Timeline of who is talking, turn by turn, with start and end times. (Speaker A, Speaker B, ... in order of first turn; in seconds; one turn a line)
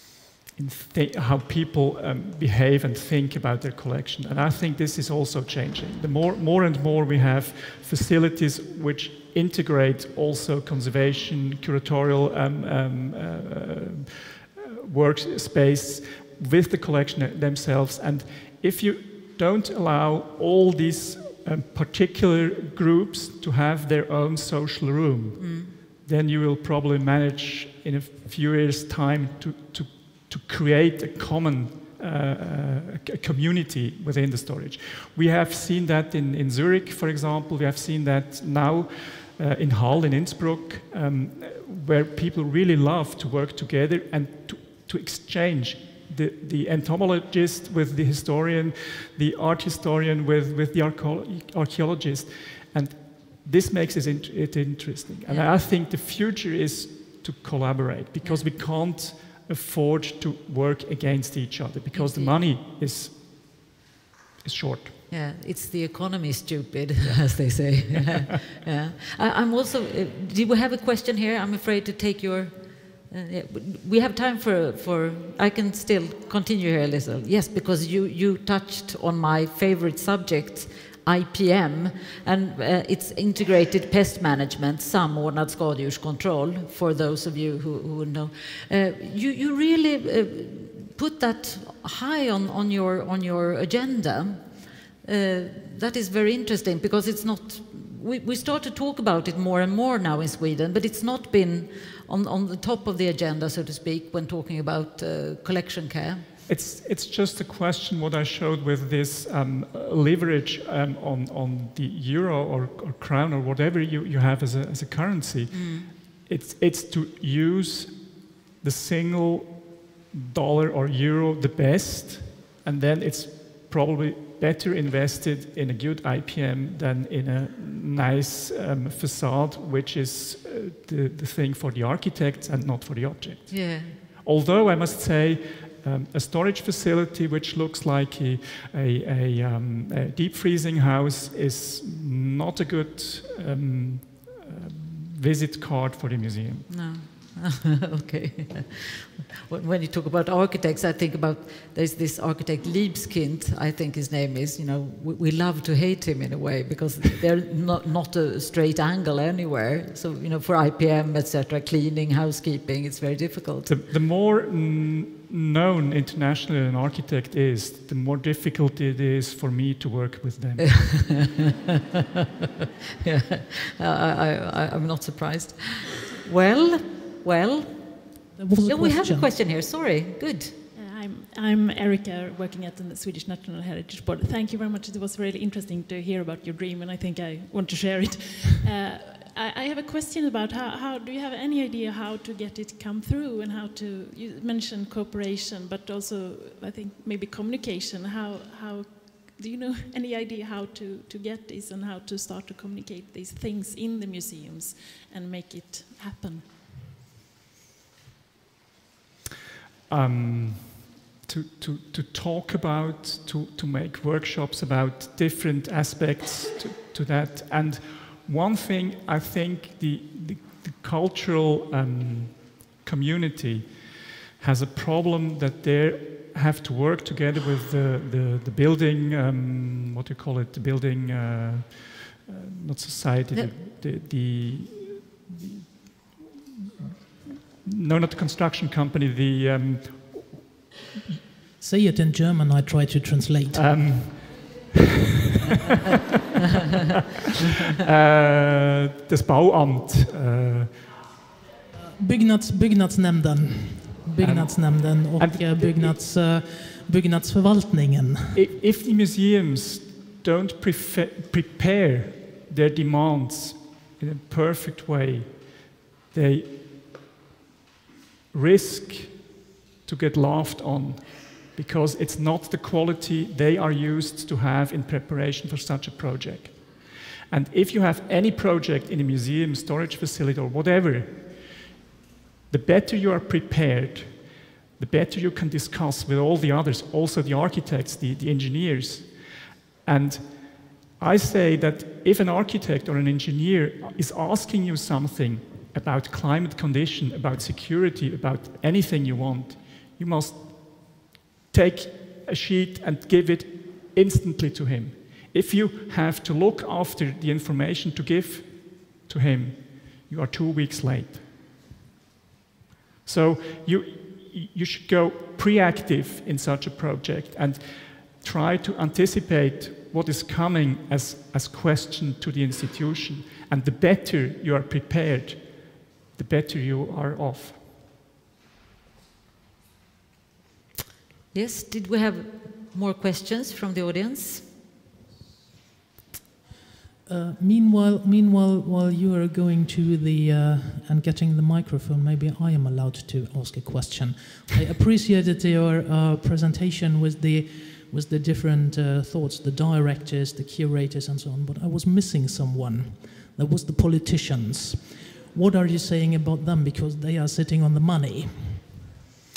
Speaker A: 0.6-63.6
Speaker B: 25.4-25.7
Speaker B: 55.3-55.5
Speaker B: 58.2-58.5
Speaker B: 61.9-62.4
Speaker A: 64.4-64.9
Speaker B: 65.1-94.5
Speaker B: 95.0-106.3
Speaker A: 106.5-146.7
Speaker B: 115.5-115.9
Speaker B: 133.5-133.9
Speaker B: 146.7-163.8
Speaker A: 163.7-171.0
Speaker B: 170.6-171.5
Speaker B: 173.0-180.5
Speaker C: 178.4-179.3
Speaker D: 180.7-206.4
Speaker A: 209.9-236.2
Speaker A: 237.6-240.4
Speaker C: 241.6-243.9
Speaker A: 243.5-244.8
Speaker A: 247.6-250.8
Speaker C: 251.8-258.4
Speaker A: 254.2-256.0
Speaker A: 258.3-266.6
Speaker A: 268.3-269.3
Speaker A: 269.9-281.6
Speaker A: 282.5-289.1
Speaker A: 289.8-311.2
Speaker A: 313.1-327.6
Speaker B: 331.3-334.4
Speaker C: 337.1-358.8